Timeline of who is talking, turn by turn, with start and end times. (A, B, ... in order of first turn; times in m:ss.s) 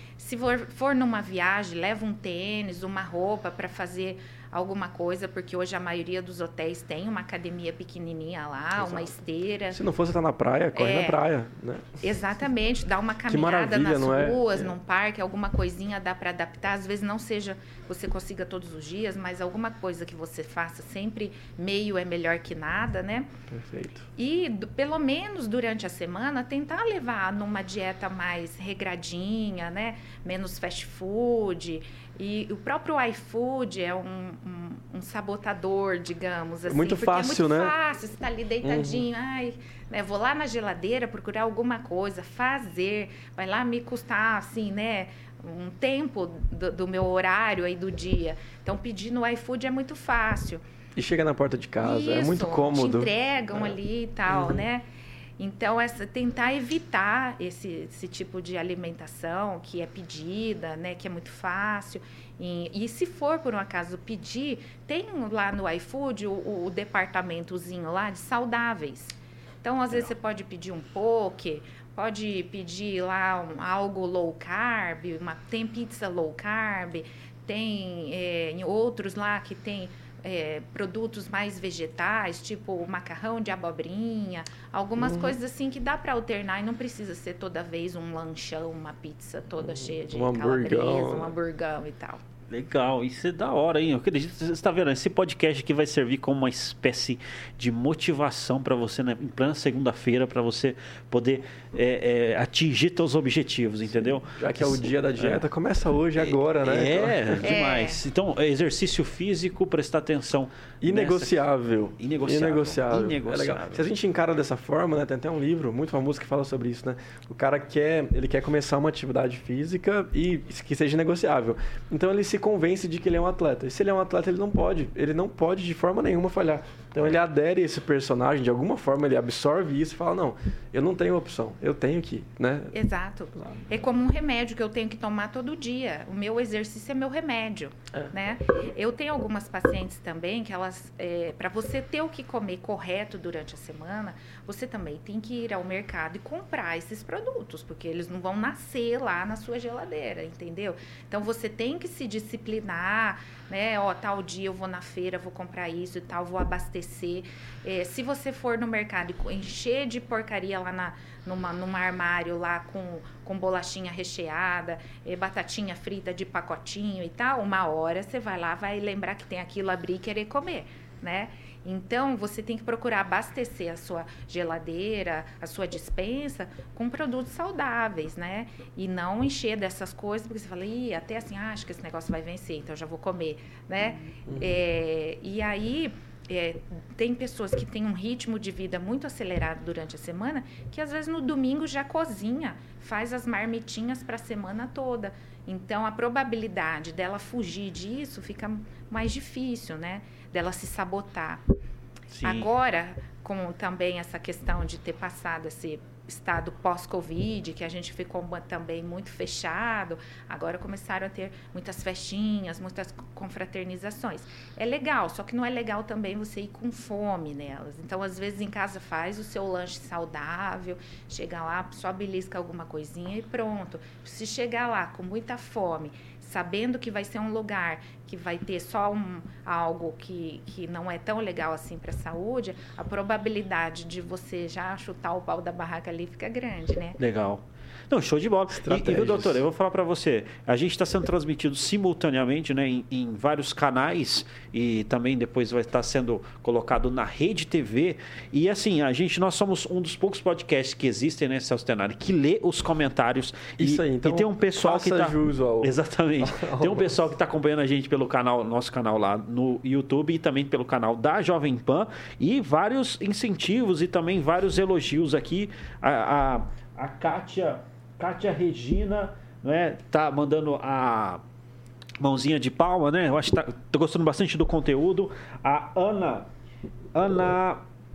0:00.2-0:09.8 A
0:08.8-0:09.1 B
0:09.7-0:12.0 B
0:10.7-0:11.2 A
0:12.0-0:23.3 A
0:13.3-0:14.7 B
0:23.5-0:24.1 B
0:24.2-0:50.6 A
0:36.7-0:37.7 B
0:38.6-0:39.0 B
0:51.0-0:53.1 B
0:51.8-0:54.8 A
0:54.3-0:54.6 B
0:55.4-1:32.2 A
1:25.0-1:25.4 B
1:29.6-1:31.4 B
1:32.5-1:45.4 C
1:44.0-1:47.5 B
1:46.2-1:51.4 C
1:47.4-1:48.0 A
1:50.8-2:12.7 B
1:52.0-1:53.9 C
2:12.7-3:21.4 A
3:04.3-3:04.6 B
3:22.1-3:22.5 C
3:22.2-3:57.0 A
3:57.0-4:31.2 C
3:58.5-3:59.4 B
4:13.6-4:17.0 B
4:32.0-4:36.3 C
4:36.9-4:37.6 C